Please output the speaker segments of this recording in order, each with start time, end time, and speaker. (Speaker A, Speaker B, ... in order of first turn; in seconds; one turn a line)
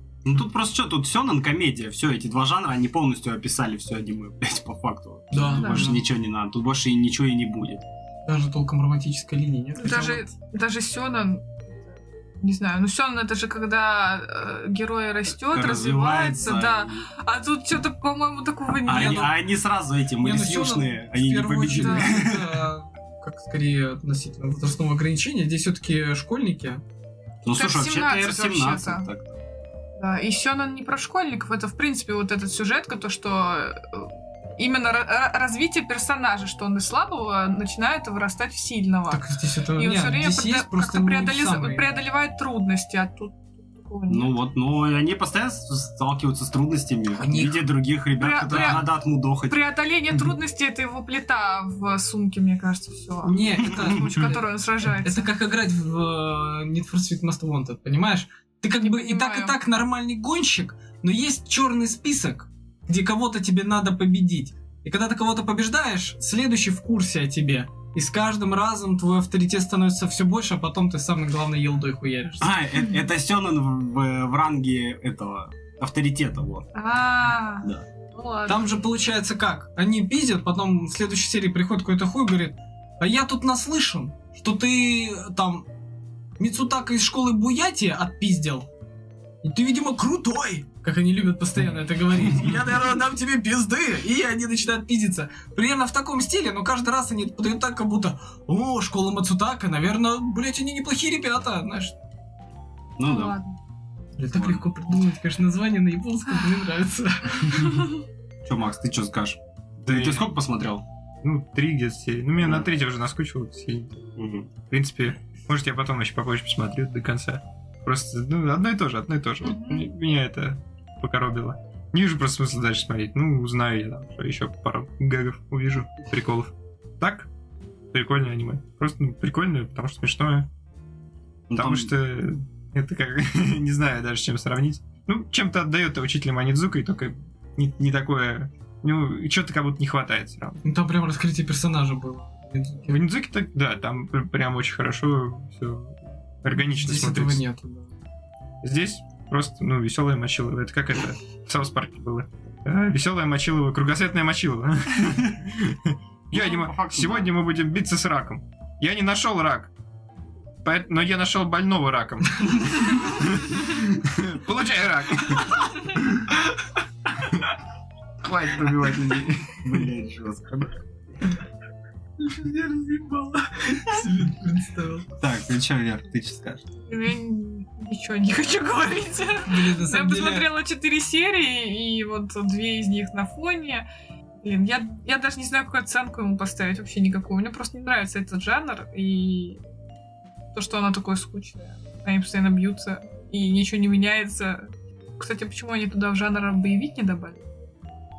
Speaker A: 0.2-7.8
Speaker B: 5.3-6.0
Speaker C: 5.5-5.9
Speaker B: 8.3-10.3
Speaker C: 9.8-19.4
Speaker A: 15.3-17.1
Speaker A: 18.9-22.7
Speaker B: 20.2-26.8
Speaker C: 21.7-22.1
Speaker A: 27.4-29.4
Speaker C: 27.5-29.1
Speaker C: 29.9-39.2
Speaker B: 39.1-41.9
Speaker C: 39.8-44.4
Speaker A: 44.1-49.6
Speaker B: 47.1-47.7
Speaker C: 48.2-55.3
Speaker B: 48.5-48.8
Speaker B: 53.2-72.5
Speaker A: 53.6-54.3
Speaker C: 58.8-59.6
Speaker A: 72.4-76.7
Speaker C: 76.7-78.8
Speaker B: 78.5-85.7
Speaker B: 86.4-88.7
Speaker B: 89.4-101.9
Speaker A: 103.0-103.4
Speaker C: 103.0-103.5
Speaker B: 104.2-107.8
Speaker A: 104.3-104.7
Speaker A: 108.4-110.8
Speaker D: 109.8-110.3
Speaker D: 111.2-127.3
Speaker A: 112.4-112.7
Speaker A: 114.2-114.5
Speaker C: 119.4-119.8
Speaker D: 127.9-130.5
Speaker A: 131.5-131.9
Speaker D: 131.6-140.6
Speaker B: 140.6-143.0
Speaker D: 142.9-147.4
Speaker B: 146.6-147.9
Speaker D: 148.6-159.7
Speaker A: 156.3-157.3
Speaker D: 160.6-166.3
Speaker D: 168.2-169.9
Speaker A: 169.6-170.7
Speaker B: 172.2-175.1
Speaker A: 175.2-176.6
Speaker C: 176.9-183.9
Speaker B: 179.4-180.5
Speaker C: 184.4-189.6
Speaker C: 190.5-197.5